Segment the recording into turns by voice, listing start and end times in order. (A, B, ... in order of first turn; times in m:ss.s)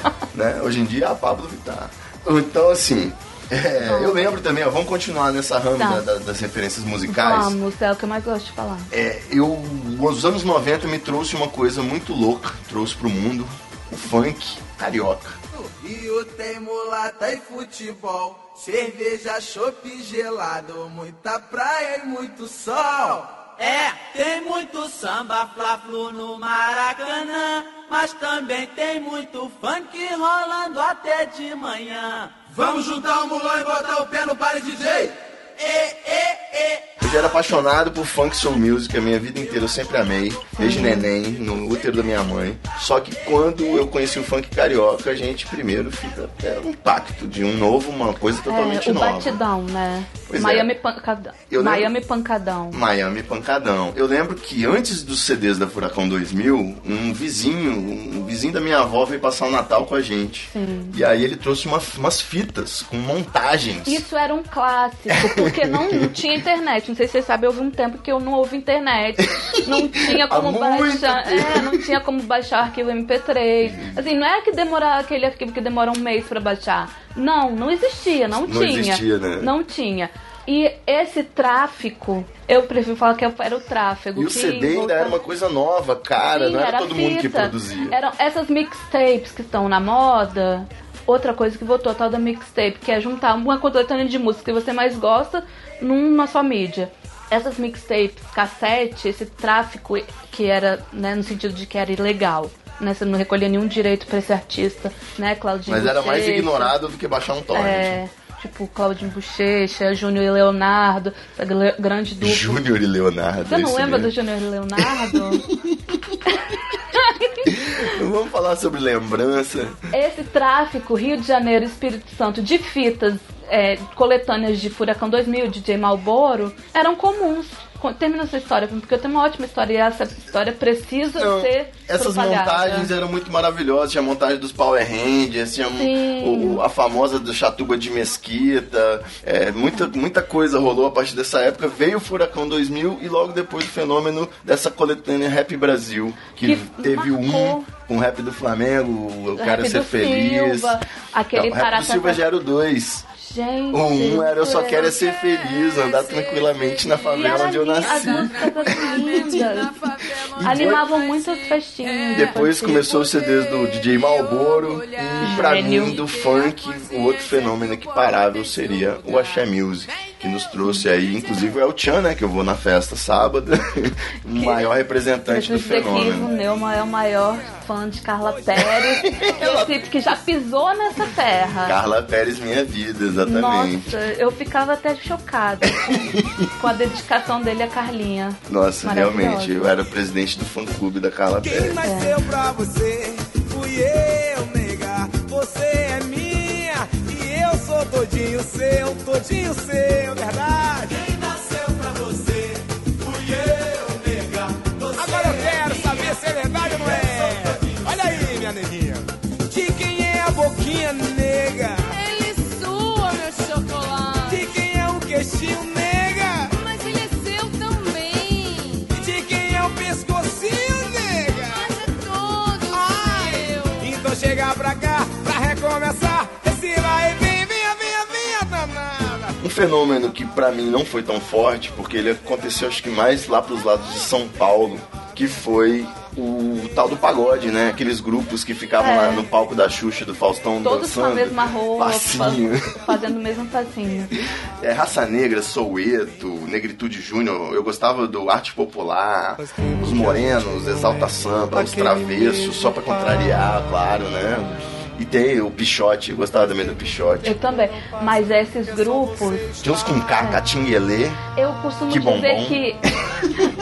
0:00.3-0:07.6 A
0:03.8-0:04.4 B
0:05.8-0:06.0 B
0:07.1-0:08.9 B
0:08.9-0:15.4 A
0:15.5-0:36.9 C
0:37.0-0:49.4 A
0:40.5-0:41.1 B
0:48.4-0:52.8 B
0:50.3-0:50.7 A
0:51.5-0:51.9 A
0:52.7-1:04.0 A
1:00.5-1:01.0 B
1:03.8-1:25.2 B
1:05.1-1:06.1 A
1:09.6-1:11.8 A
1:13.6-1:14.0 A
1:18.4-1:19.5 A
1:24.1-1:28.0 A
1:26.3-1:46.8 B
1:45.7-1:48.0 A
1:47.5-1:52.6 B
1:52.2-1:54.1 A
1:53.4-1:55.4 B
1:54.8-1:56.1 A
1:56.9-1:57.5 B
1:57.4-1:59.8 A
1:59.9-2:12.9 B
2:11.2-2:30.8 A
2:15.8-2:16.6 B
2:26.4-2:27.7 B
2:29.4-2:32.2 B
2:31.3-2:33.0 A
2:33.2-2:34.9 B
2:33.7-2:39.4 A
2:35.2-2:49.4 D
2:37.1-2:39.8 B
2:40.1-2:40.8 A
2:40.4-2:42.9 B
2:42.1-2:56.3 A
2:45.2-2:46.0 B
2:54.3-2:54.7 B
2:55.3-3:01.8 B
2:58.6-2:59.8 A
3:01.6-3:03.9 A
3:03.2-3:09.7 B
3:05.7-3:06.5 A
3:08.5-3:11.8 A
3:11.4-3:20.9 E
3:11.8-3:12.2 B
3:20.9-3:26.1 C
3:25.0-3:32.0 E
3:26.9-3:27.7 C
3:31.9-3:34.5 D
3:34.2-3:36.6 E
3:36.5-3:38.9 D
3:38.9-3:41.7 E
3:41.5-3:43.8 D
3:42.7-3:49.4 E
3:49.4-4:03.0 A
3:58.8-3:59.2 B
4:00.6-4:04.1 B
4:04.6-4:17.4 A
4:09.5-4:10.4 E
4:11.5-4:12.7 E
4:17.2-4:19.5 B
4:18.5-4:19.8 E
4:19.6-4:21.2 A
4:20.2-4:20.4 B
4:21.3-4:22.8 B
4:21.9-4:22.6 A